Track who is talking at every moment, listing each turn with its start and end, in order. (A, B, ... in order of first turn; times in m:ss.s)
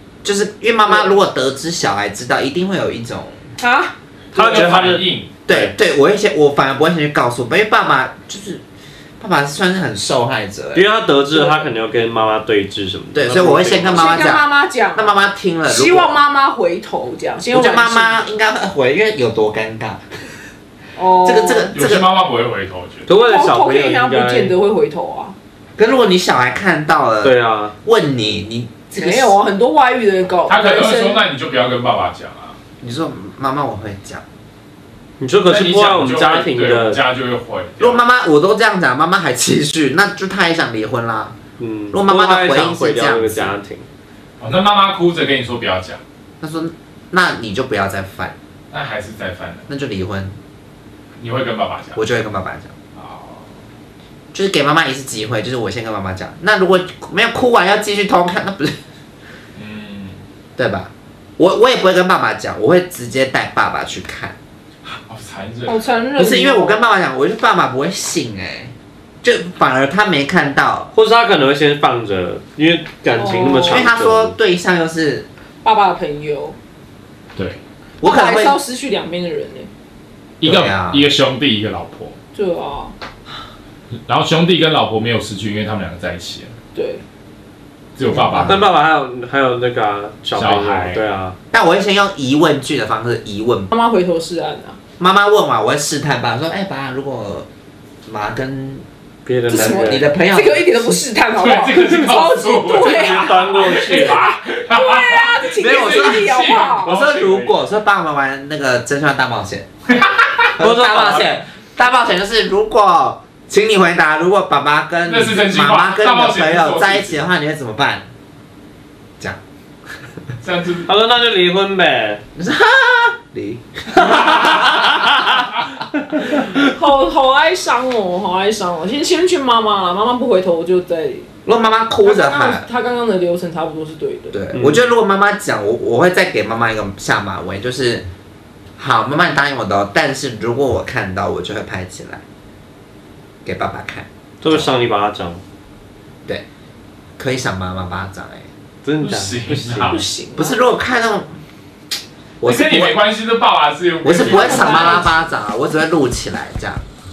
0:00.2-0:03.4 A
0:00.9-0:01.1 B
0:03.6-0:03.9 B
0:04.3-0:05.7 C
0:04.3-0:05.3 D
0:05.4-0:08.6 A
0:09.2-0:10.9 A
0:10.7-0:14.3 C
0:11.3-0:11.7 B
0:13.1-0:16.2 A
0:13.9-0:18.2 B
0:17.5-0:20.3 A
0:20.9-0:21.8 B
0:21.2-0:22.1 A
0:21.7-0:23.1 D
0:23.0-0:24.5 C
0:23.2-0:25.3 B
0:25.8-0:29.4 A
0:27.2-0:27.7 C
0:28.9-0:31.2 B
0:30.5-0:32.6 D
0:32.8-0:34.2 A
0:35.2-0:37.0 C
0:35.4-0:38.0 D
0:37.8-0:41.4 A
0:41.6-0:43.8 C
0:41.9-0:43.6 A
0:44.4-0:46.0 D
0:46.4-0:48.3 A
0:48.7-0:49.6 D
0:49.7-0:50.4 A
0:51.2-0:52.0 D
0:52.0-0:52.7 A
0:53.0-0:53.5 D
0:54.3-0:58.8 A
0:59.5-1:00.2 D
1:00.6-1:04.4 A
1:04.8-1:05.8 D
1:05.7-1:06.9 B
1:06.2-1:10.9 A
1:10.9-1:14.3 C
1:13.1-1:13.8 B
1:13.7-1:15.3 A
1:15.6-1:16.6 B
1:18.0-1:18.6 A
1:18.0-1:19.7 B
1:20.4-1:22.2 D
1:20.4-1:21.1 A
1:22.3-1:22.9 B
1:24.1-1:26.5 D
1:26.7-1:27.0 B
1:28.0-1:28.7 D
1:28.1-1:28.6 A
1:28.4-1:31.3 C
1:30.3-1:31.0 D
1:31.5-1:33.7 A
1:33.7-1:34.8 B
1:35.0-1:37.5 A
1:38.0-1:38.8 A
1:39.2-1:40.0 C
1:39.5-1:41.0 A
1:39.5-1:46.9 B
1:41.4-1:47.5 D
1:42.7-1:44.2 C
1:45.6-1:46.3 A
1:46.8-1:49.7 A
1:50.0-1:50.5 D
1:50.5-1:58.1 A
1:50.6-1:51.3 C
1:55.0-1:57.2 D
2:00.4-2:00.9 D
2:00.8-2:02.2 C
2:02.3-2:05.1 A
2:04.0-2:04.5 D
2:04.1-2:04.9 C
2:06.2-2:11.3 B
2:11.4-2:12.7 A
2:12.0-2:14.4 B
2:14.3-2:18.0 A
2:18.8-2:22.2 A
2:23.4-2:24.7 A
2:24.4-2:25.4 C
2:27.2-2:28.5 A
2:28.8-2:30.0 C
2:29.0-2:30.0 D
2:29.9-2:30.6 B
2:30.4-2:31.3 A
2:32.4-2:33.0 A
2:32.4-2:35.1 D
2:34.0-2:36.8 A
2:34.4-2:35.1 B